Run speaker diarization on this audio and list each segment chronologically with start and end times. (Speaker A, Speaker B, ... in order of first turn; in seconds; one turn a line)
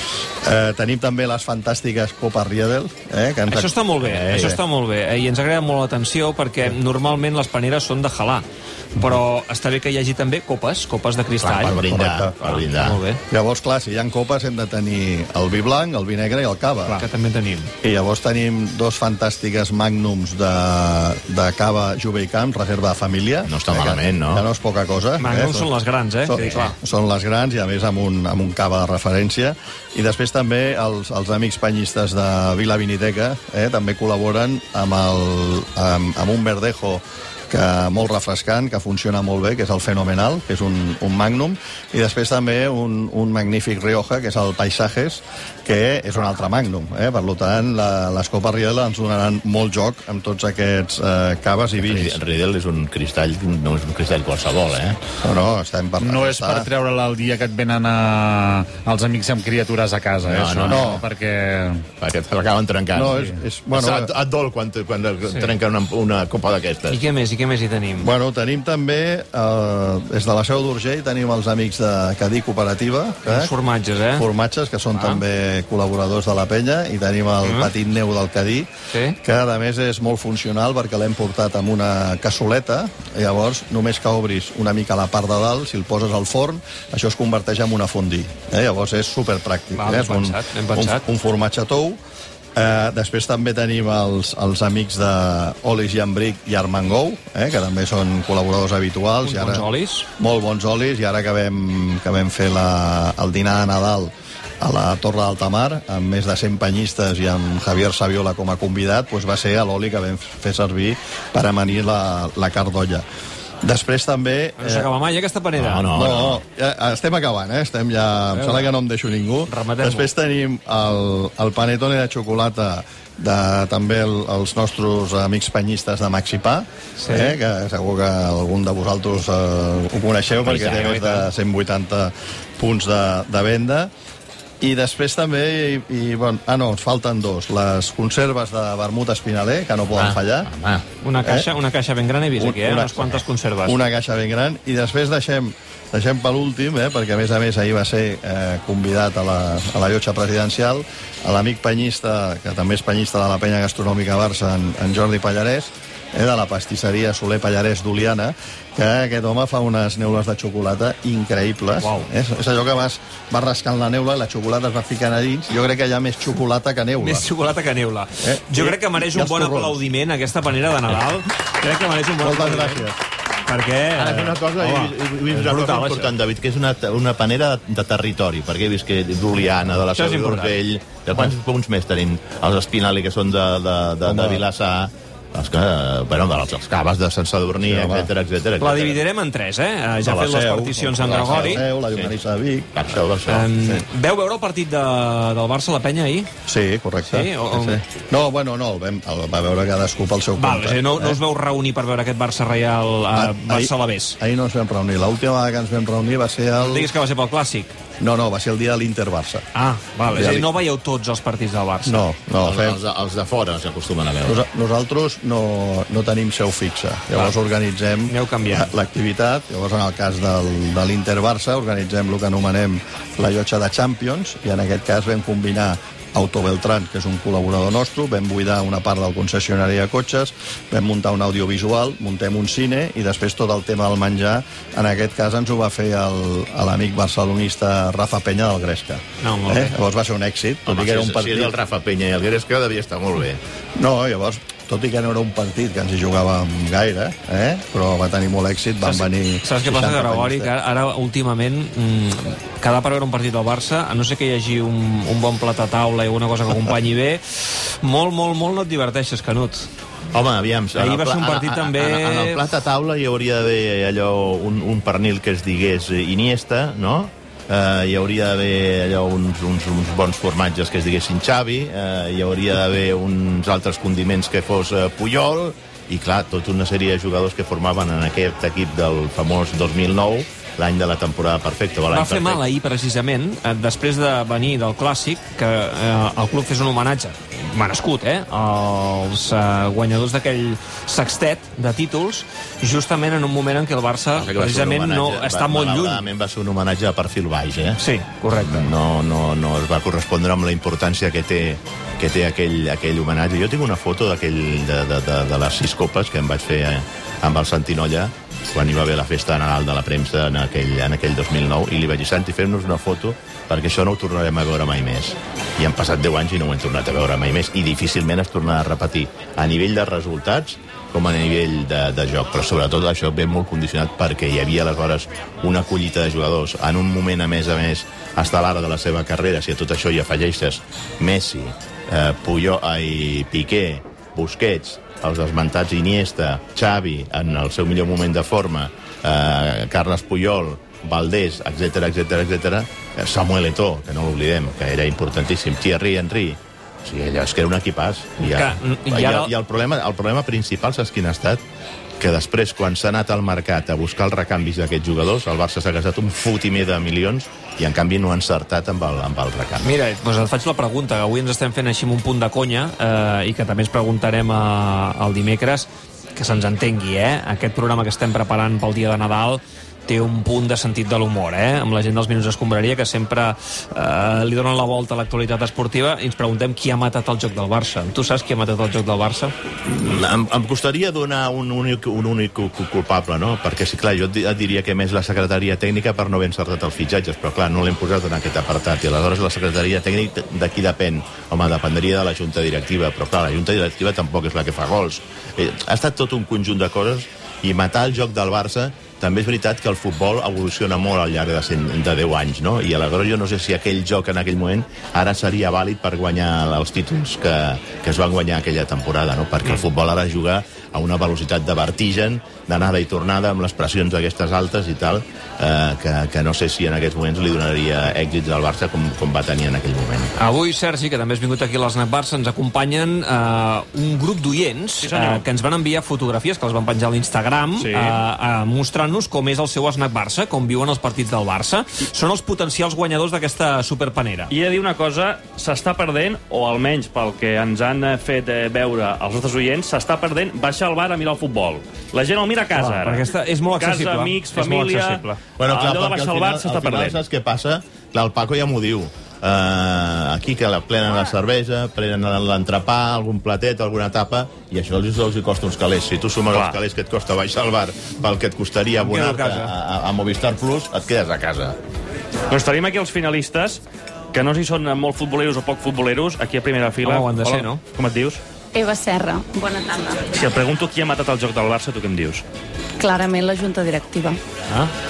Speaker A: 0.4-3.7
Speaker B: 3.5-8.4
Speaker C: 4.0-4.6
Speaker B: 8.9-11.8
Speaker C: 11.4-13.0
Speaker A: 11.8-12.3
Speaker B: 12.4-13.2
Speaker A: 13.3-17.0
Speaker B: 16.9-17.7
Speaker A: 17.8-25.7
Speaker C: 23.4-24.4
Speaker B: 25.2-26.7
Speaker A: 26.2-52.2
Speaker C: 51.8-55.0
Speaker A: 55.2-56.7
Speaker D: 56.0-61.8
Speaker C: 60.2-61.0
Speaker A: 60.7-61.0
Speaker C: 62.0-67.0
Speaker A: 62.9-64.1
Speaker B: 66.9-68.1
Speaker A: 68.0-73.5
Speaker B: 73.2-74.2
Speaker A: 74.2-92.0
Speaker B: 74.9-75.2
Speaker B: 77.4-77.7
Speaker B: 78.9-79.2
Speaker B: 89.7-91.1
Speaker A: 92.5-99.7
Speaker B: 99.2-100.1
Speaker A: 100.2-113.0
Speaker A: 113.6-114.9
Speaker B: 114.6-115.8
Speaker C: 115.5-116.4
Speaker A: 115.9-133.9
Speaker B: 118.3-118.7
Speaker B: 119.5-120.1
Speaker B: 127.0-127.4
Speaker C: 130.3-131.0
Speaker B: 130.4-131.2
Speaker A: 134.6-140.5
Speaker C: 139.9-140.8
Speaker B: 141.0-143.8
Speaker A: 141.2-141.5
Speaker A: 142.4-167.3
Speaker B: 161.8-162.1
Speaker B: 167.0-172.8
Speaker A: 168.2-169.8
Speaker A: 172.2-173.0
Speaker B: 173.4-176.1
Speaker C: 173.9-189.0
Speaker B: 179.9-180.6
Speaker A: 184.0-184.4
Speaker A: 187.6-188.1
Speaker B: 188.6-191.6
Speaker A: 190.0-193.0
Speaker C: 191.0-192.1
Speaker C: 192.7-193.5
Speaker B: 193.3-196.3
Speaker A: 196.4-201.2
Speaker B: 197.1-197.8
Speaker B: 200.4-204.2
Speaker A: 203.1-206.9
Speaker B: 206.6-207.7
Speaker A: 208.0-209.4
Speaker B: 209.5-212.0
Speaker A: 210.1-210.5
Speaker A: 211.8-212.8
Speaker C: 212.4-214.4
Speaker A: 214.2-241.6
Speaker B: 218.1-218.7
Speaker B: 239.2-239.7
Speaker C: 240.7-243.4
Speaker A: 243.8-250.5
Speaker B: 248.8-259.7
Speaker C: 260.1-282.4
Speaker B: 260.8-262.4
Speaker B: 281.9-296.0
Speaker C: 294.1-351.4
Speaker B: 297.8-298.7
Speaker B: 348.2-349.3
Speaker C: 352.0-359.7
Speaker B: 359.6-379.3
Speaker C: 379.6-420.1
Speaker B: 420.2-434.3
Speaker E: 424.8-425.2
Speaker E: 427.6-428.0
Speaker E: 434.3-447.0
Speaker B: 442.5-445.2
Speaker C: 445.4-461.6
Speaker E: 456.3-456.6
Speaker B: 458.8-459.5
Speaker E: 462.3-463.6
Speaker E: 464.1-468.2
Speaker B: 466.8-467.6
Speaker F: 468.5-470.3
Speaker E: 470.1-472.2
Speaker F: 472.8-474.2